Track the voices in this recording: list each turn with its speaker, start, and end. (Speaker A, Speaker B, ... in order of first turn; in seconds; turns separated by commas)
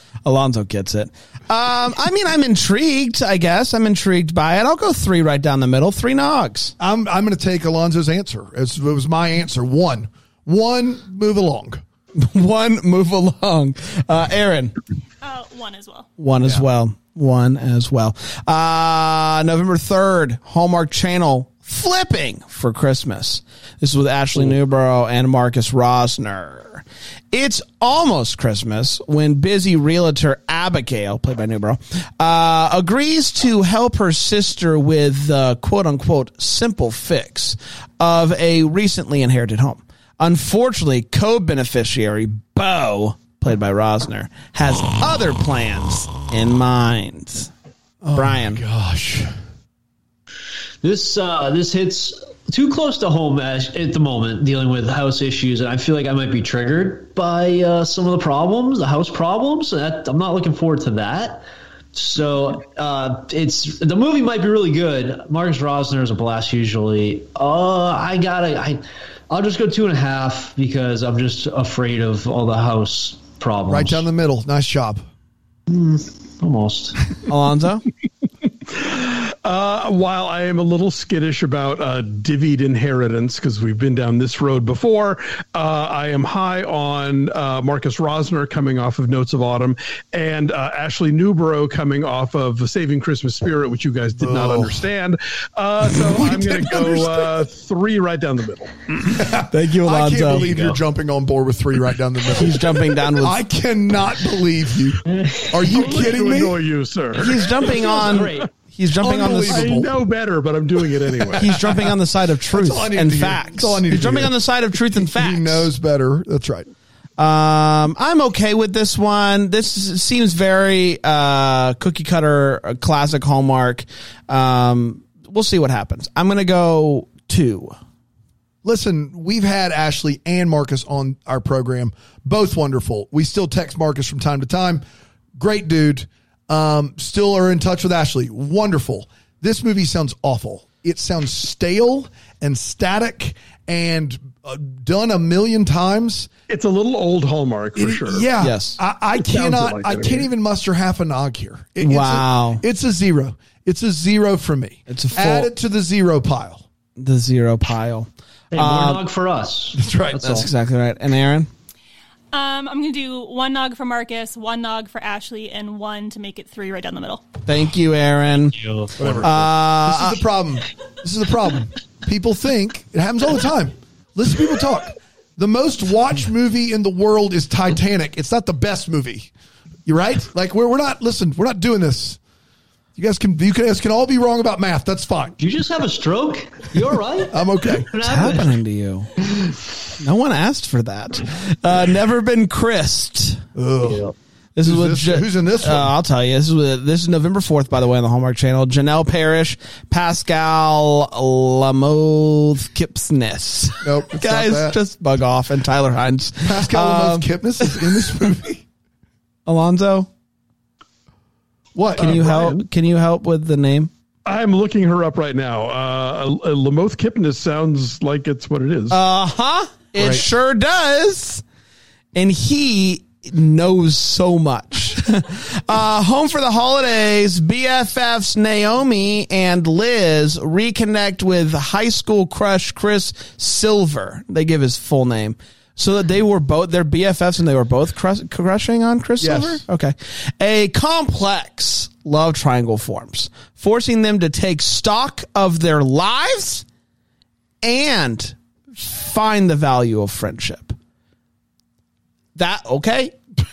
Speaker A: 0.2-6.7, Speaker B: 6.8-11.8, Speaker A: 12.2-14.7, Speaker C: 15.2-16.1, Speaker A: 16.2-47.5, Speaker B: 48.0-49.3, Speaker A: 48.1-48.6, Speaker D: 50.8-74.0, Speaker B: 73.7-75.0, Speaker D: 75.7-77.0, Speaker A: 77.3-77.8, Speaker E: 78.7-99.0, Speaker B: 94.2-94.8, Speaker B: 95.9-97.3, Speaker B: 99.1-106.6, Speaker A: 99.4-100.5, Speaker A: 102.3-103.4, Speaker D: 105.1-105.6, Speaker E: 105.6-108.3, Speaker A: 107.1-109.7, Speaker D: 107.6-108.5, Speaker B: 109.0-109.9, Speaker E: 109.4-111.6, Speaker B: 111.3-111.6, Speaker A: 111.4-115.7, Speaker B: 112.5-114.4, Speaker B: 114.9-116.7, Speaker A: 117.2-127.8, Speaker B: 128.6-134.8, Speaker B: 135.3-146.3, Speaker E: 146.5-148.3, Speaker B: 147.8-156.6, Speaker A: 148.4-148.8, Speaker E: 149.2-150.3, Speaker A: 151.8-152.6, Speaker A: 154.9-155.5, Speaker A: 157.0-159.0, Speaker D: 158.5-160.5, Speaker B: 159.8-160.5, Speaker A: 160.2-161.5, Speaker C: 162.3-167.2, Speaker A: 167.4-168.6, Speaker D: 168.6-169.2, Speaker B: 169.0-179.3, Speaker A: 169.2-170.2, Speaker B: 179.8-182.2, Speaker B: 182.9-185.4, Speaker D: 185.4-188.6, Speaker B: 187.3-187.9, Speaker A: 188.0-189.1, Speaker A: 190.0-193.4, Speaker B: 193.5-194.1, Speaker D: 193.8-194.1, Speaker A: 194.6-208.0, Speaker B: 194.6-195.9, Speaker B: 203.8-204.8, Speaker B: 206.4-208.6, Speaker A: 209.4-210.1, Speaker B: 211.7-212.4, Speaker A: 212.0-213.9, Speaker E: 212.0-212.6, Speaker E: 214.2-219.0, Speaker A: 218.9-221.4, Speaker B: 219.9-220.2, Speaker A: 222.1-246.6, Speaker B: 239.2-239.6, Speaker A: 247.6-250.7, Speaker A: 252.3-253.2